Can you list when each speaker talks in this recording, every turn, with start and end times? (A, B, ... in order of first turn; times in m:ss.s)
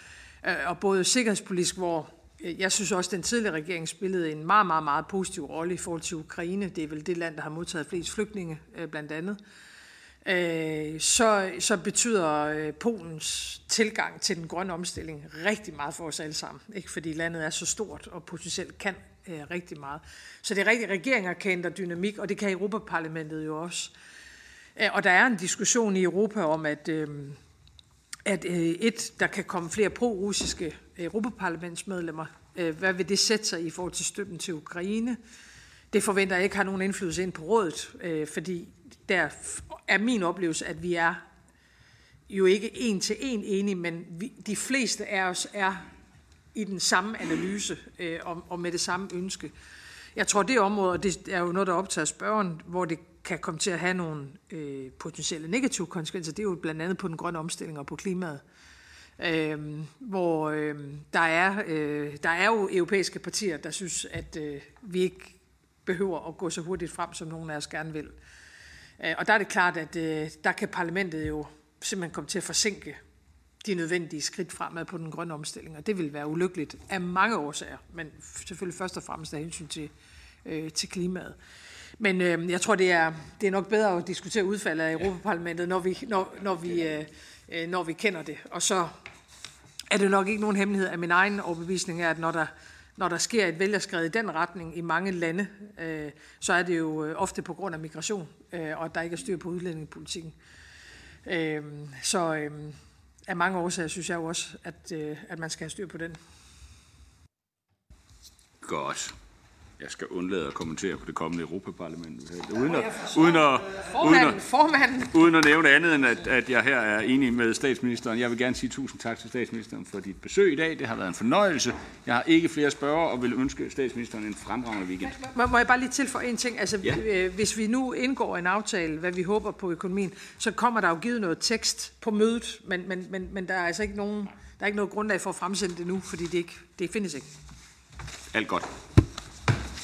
0:00.4-0:09.4 A
0:10.2-0:23.9 A
0:24.8-0:27.4 A
0:28.2-0:35.2 A
0:35.9-0:41.2 A
0:42.3-0:45.8 A
0:46.5-0:49.5 A
0:50.2-0:58.4 A
0:59.2-1:08.1 A
1:09.0-1:13.0 A
1:13.6-1:19.9 A
1:20.4-1:21.4 A
1:22.0-1:28.9 A
1:29.9-1:40.3 A
1:41.2-1:46.2 A
1:48.6-1:49.1 B
1:49.8-1:54.4 B
1:52.9-1:55.1 A
1:55.1-2:05.1 B
2:05.1-2:17.3 A
2:18.3-2:18.7 B